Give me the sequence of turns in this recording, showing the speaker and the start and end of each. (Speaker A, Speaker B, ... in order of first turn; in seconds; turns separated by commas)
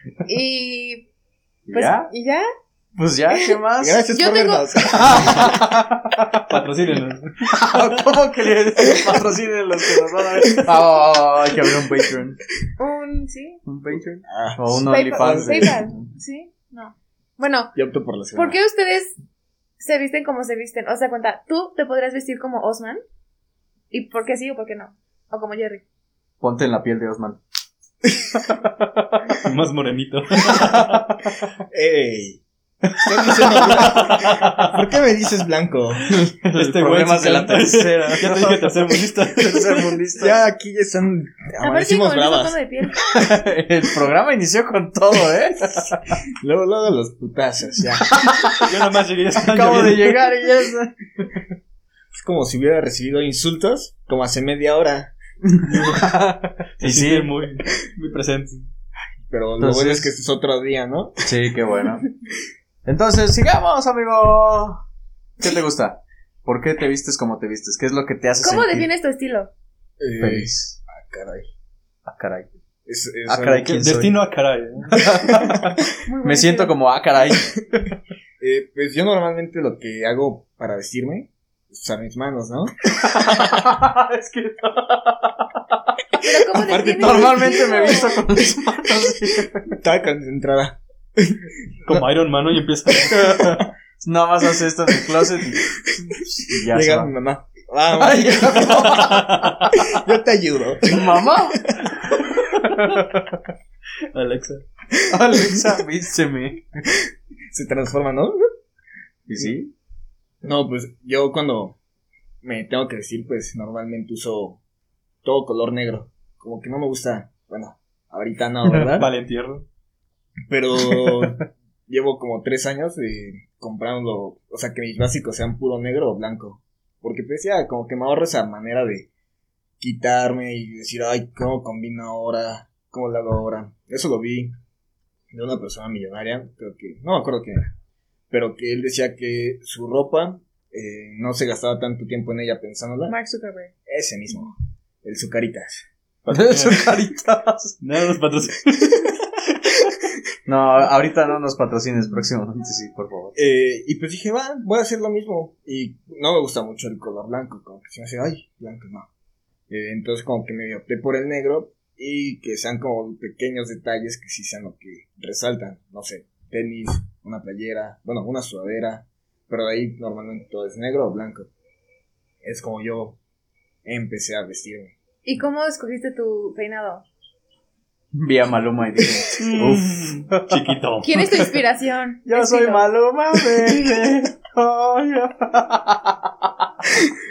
Speaker A: 0.3-1.1, Speaker B: 1.7-2.1, Speaker A: 1.7-2.5, Speaker B: 3.0-4.0, Speaker C: 3.8-5.6, Speaker A: 4.1-5.3, Speaker B: 5.0-6.7, Speaker D: 6.5-7.5, Speaker B: 7.5-12.4, Speaker C: 10.2-10.7, Speaker C: 11.5-11.8, Speaker A: 12.8-13.6, Speaker B: 13.7-16.1, Speaker C: 14.3-15.8, Speaker A: 14.9-17.7, Speaker C: 17.8-18.6, Speaker A: 18.4-19.1, Speaker A: 19.8-23.0, Speaker A: 23.9-25.8, Speaker B: 26.4-27.4, Speaker B: 28.4-29.4, Speaker D: 29.4-31.0, Speaker B: 30.5-31.4, Speaker C: 31.7-36.2, Speaker B: 32.9-34.4, Speaker D: 33.8-34.7, Speaker B: 36.1-40.4, Speaker D: 36.5-40.0, Speaker C: 40.2-42.6, Speaker A: 41.6-43.0, Speaker B: 43.0-46.2, Speaker C: 45.5-45.9, Speaker C: 46.4-48.1, Speaker B: 48.1-48.8, Speaker D: 48.6-50.2, Speaker B: 49.4-51.4, Speaker C: 52.1-55.1, Speaker B: 55.5-57.3, Speaker D: 55.7-56.1, Speaker D: 56.8-58.6, Speaker C: 59.3-61.2, Speaker B: 59.6-60.1, Speaker B: 61.2-62.0, Speaker B: 62.9-64.8, Speaker B: 65.4-68.9, Speaker A: 68.4-69.5, Speaker C: 70.0-71.5, Speaker B: 70.2-70.8, Speaker B: 72.1-72.5, Speaker C: 72.9-73.8, Speaker B: 73.3-74.2, Speaker D: 73.7-75.3, Speaker B: 74.9-77.5, Speaker C: 74.9-75.7, Speaker A: 76.0-76.8, Speaker C: 77.4-77.8, Speaker C: 78.4-82.8, Speaker B: 83.0-86.0, Speaker A: 86.2-88.2, Speaker C: 86.6-87.8, Speaker B: 86.9-89.8, Speaker C: 89.7-92.1, Speaker D: 91.9-93.5, Speaker B: 93.1-97.1, Speaker C: 94.9-95.7, Speaker C: 96.5-99.2, Speaker B: 97.9-99.8, Speaker D: 98.7-99.8, Speaker C: 99.7-101.8, Speaker B: 100.9-103.4, Speaker D: 104.1-104.6, Speaker C: 105.0-105.7, Speaker B: 105.1-106.7, Speaker C: 107.5-108.5, Speaker B: 109.3-109.7, Speaker C: 110.4-111.8, Speaker C: 112.4-114.6, Speaker C: 115.2-119.1, Speaker D: 118.7-119.7, Speaker C: 120.5-129.1, Speaker C: 129.8-134.6, Speaker C: 135.3-137.7, Speaker C: 138.3-143.2, Speaker A: 143.1-143.7, Speaker C: 143.9-144.5, Speaker C: 145.0-145.8, Speaker D: 146.3-146.9, Speaker B: 146.3-147.8, Speaker D: 147.8-149.9, Speaker B: 150.5-153.3, Speaker C: 153.4-159.1, Speaker C: 159.7-171.5, Speaker C: 172.4-173.2, Speaker C: 173.8-174.9, Speaker A: 175.2-177.1, Speaker B: 178.1-180.6, Speaker D: 179.4-181.2, Speaker A: 181.0-182.9, Speaker B: 182.3-186.7